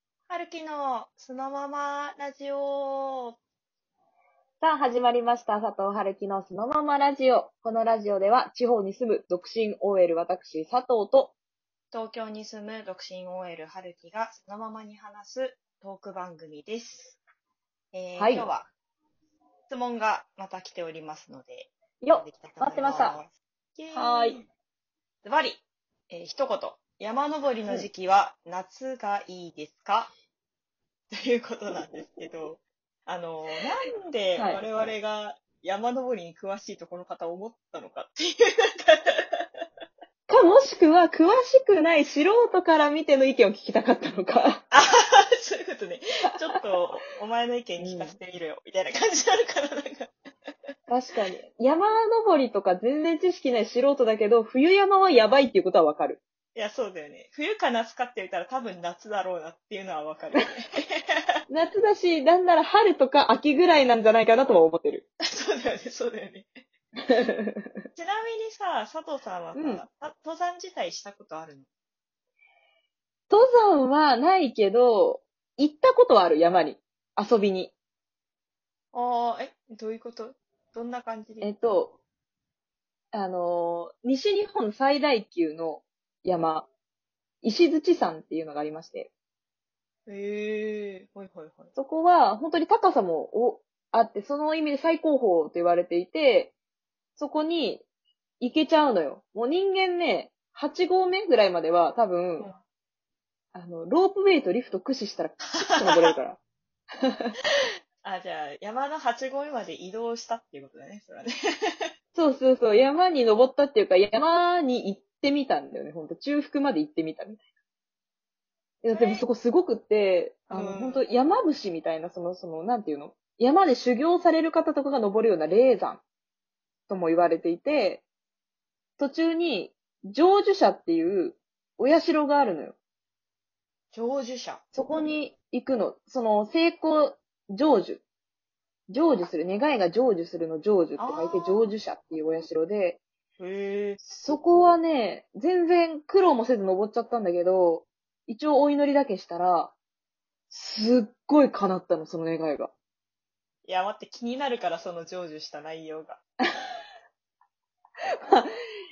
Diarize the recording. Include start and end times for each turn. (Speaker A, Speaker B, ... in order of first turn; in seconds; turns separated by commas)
Speaker A: 0.3-3.4, Speaker B: 4.6-11.3, Speaker A: 11.9-17.2, Speaker A: 17.9-18.7, Speaker B: 18.2-18.5, Speaker A: 19.7-24.4, Speaker B: 22.0-23.1, Speaker B: 23.9-24.4, Speaker A: 25.2-30.1, Speaker A: 31.1-39.5, Speaker B: 34.4-34.6, Speaker B: 40.3-44.6, Speaker A: 44.7-50.1, Speaker B: 47.8-48.2, Speaker B: 50.9-56.2, Speaker A: 56.5-61.1, Speaker B: 61.5-65.0, Speaker A: 65.2-66.5, Speaker B: 67.0-67.8, Speaker A: 68.0-71.7, Speaker B: 69.5-69.8, Speaker B: 73.3-77.7, Speaker A: 78.9-81.5, Speaker B: 81.4-82.0, Speaker B: 83.1-86.7, Speaker B: 87.4-89.1, Speaker A: 90.0-91.7, Speaker B: 91.8-96.5, Speaker B: 97.2-97.8, Speaker B: 98.4-102.5, Speaker B: 103.5-106.4, Speaker A: 105.7-106.1, Speaker B: 107.0-107.3, Speaker A: 108.0-111.9, Speaker B: 112.1-117.4, Speaker B: 118.8-126.0, Speaker A: 118.9-119.2, Speaker A: 120.5-121.0, Speaker B: 126.9-128.0, Speaker B: 129.0-132.8, Speaker A: 133.9-134.6, Speaker B: 134.7-138.0, Speaker B: 138.9-143.0, Speaker A: 141.0-141.7, Speaker A: 143.4-144.1, Speaker B: 144.1-149.7, Speaker B: 150.5-152.7, Speaker A: 153.6-156.2, Speaker B: 158.2-158.5